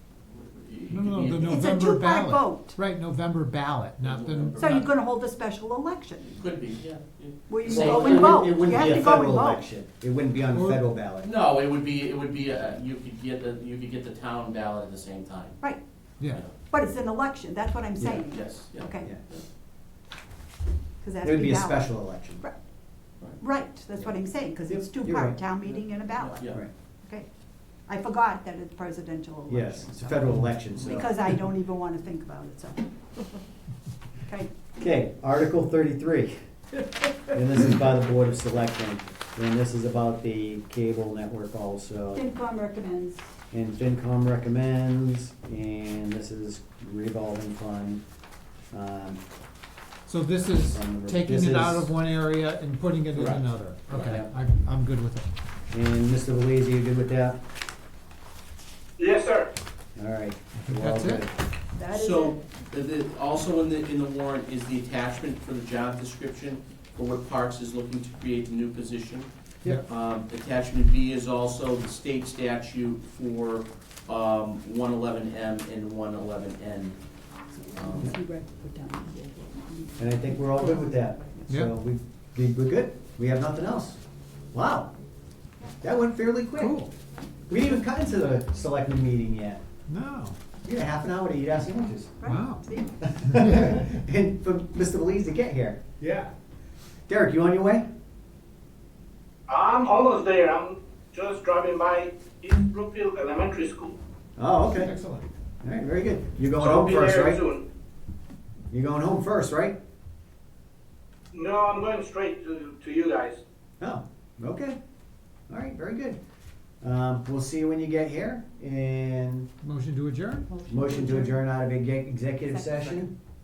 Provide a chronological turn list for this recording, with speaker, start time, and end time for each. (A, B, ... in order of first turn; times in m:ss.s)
0:00.3-0:01.5 A
0:00.9-0:04.8 B
0:01.4-0:02.8 C
0:04.0-0:04.9 A
0:04.6-0:06.3 C
0:06.2-0:09.1 A
0:07.5-0:09.6 C
0:07.6-0:11.3 D
0:10.5-0:10.8 B
0:11.2-0:15.6 A
0:16.5-0:19.1 C
0:18.0-0:18.2 D
0:18.0-0:19.4 A
0:21.0-0:22.5 C
0:21.2-0:22.4 D
0:23.4-0:27.2 C
0:24.7-0:25.4 D
0:25.7-0:26.6 A
0:27.9-0:32.9 C
0:29.5-0:31.1 D
0:30.7-0:31.0 A
0:34.8-0:36.3 D
0:37.3-0:42.2 D
0:42.1-0:43.2 C
0:43.5-0:48.0 D
0:48.7-0:49.2 D
0:50.1-0:55.2 B
0:50.4-0:51.9 D
0:53.2-0:54.2 A
0:53.9-0:54.3 D
0:55.7-0:57.4 D
0:59.0-0:59.5 E
0:59.9-1:01.3 D
1:00.6-1:01.2 B
1:01.8-1:02.4 C
1:01.9-1:17.0 A
1:17.5-1:21.4 C
1:17.7-1:18.1 A
1:20.0-1:24.0 D
1:24.5-1:24.9 D
1:25.8-1:26.8 D
1:26.6-1:26.9 B
1:27.5-1:29.6 D
1:29.9-1:30.4 B
1:30.6-1:32.2 D
1:32.2-1:33.0 C
1:32.2-1:32.6 B
1:33.0-1:35.8 D
1:33.3-1:33.7 B
1:36.0-1:36.3 B
1:37.1-1:37.8 D
1:39.5-1:44.0 E
1:44.4-1:45.0 D
1:44.7-1:45.3 B
1:45.6-1:47.4 D
1:46.6-1:47.6 E
1:48.7-1:49.7 D
1:51.3-1:53.4 E
1:53.8-1:54.8 D
1:55.5-1:56.2 D
1:56.8-1:59.5 D
1:59.6-2:00.5 B
2:00.6-2:01.3 C
2:00.7-2:03.1 D
2:02.4-2:03.1 C